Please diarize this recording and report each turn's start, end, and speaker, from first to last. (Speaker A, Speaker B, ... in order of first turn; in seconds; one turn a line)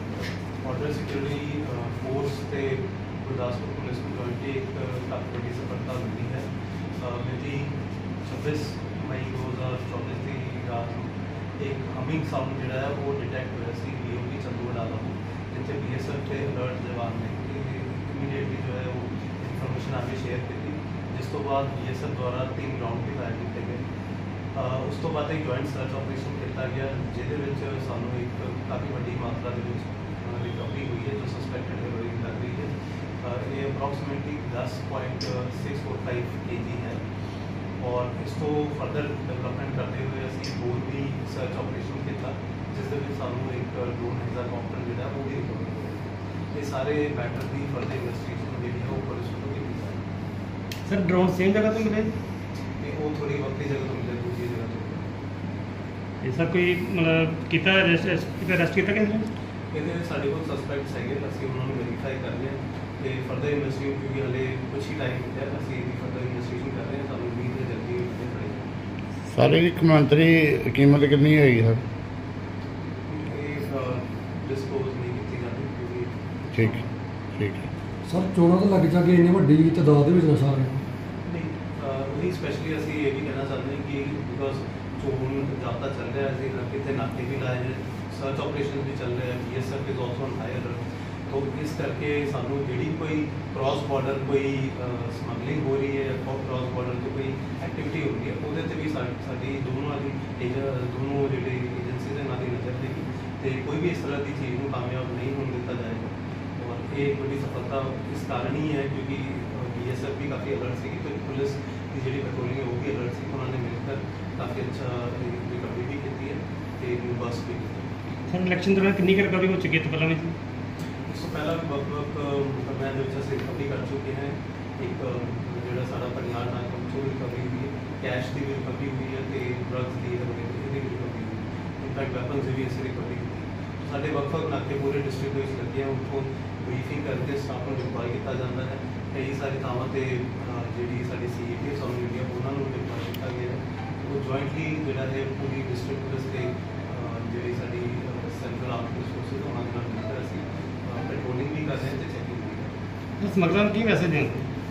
Speaker A: 0.6-23.8
Speaker A: 24.5-37.0
Speaker A: 37.8-50.0
Speaker B: 50.9-52.1
Speaker A: 52.8-55.1
Speaker B: 56.2-59.3
Speaker A: 59.7-68.7
Speaker C: 69.3-71.8
Speaker A: 73.1-77.0
Speaker C: 77.3-77.7
Speaker D: 78.1-80.8
Speaker A: 81.2-117.9
Speaker B: 118.3-120.3
Speaker A: 121.1-152.8
Speaker B: 153.2-154.4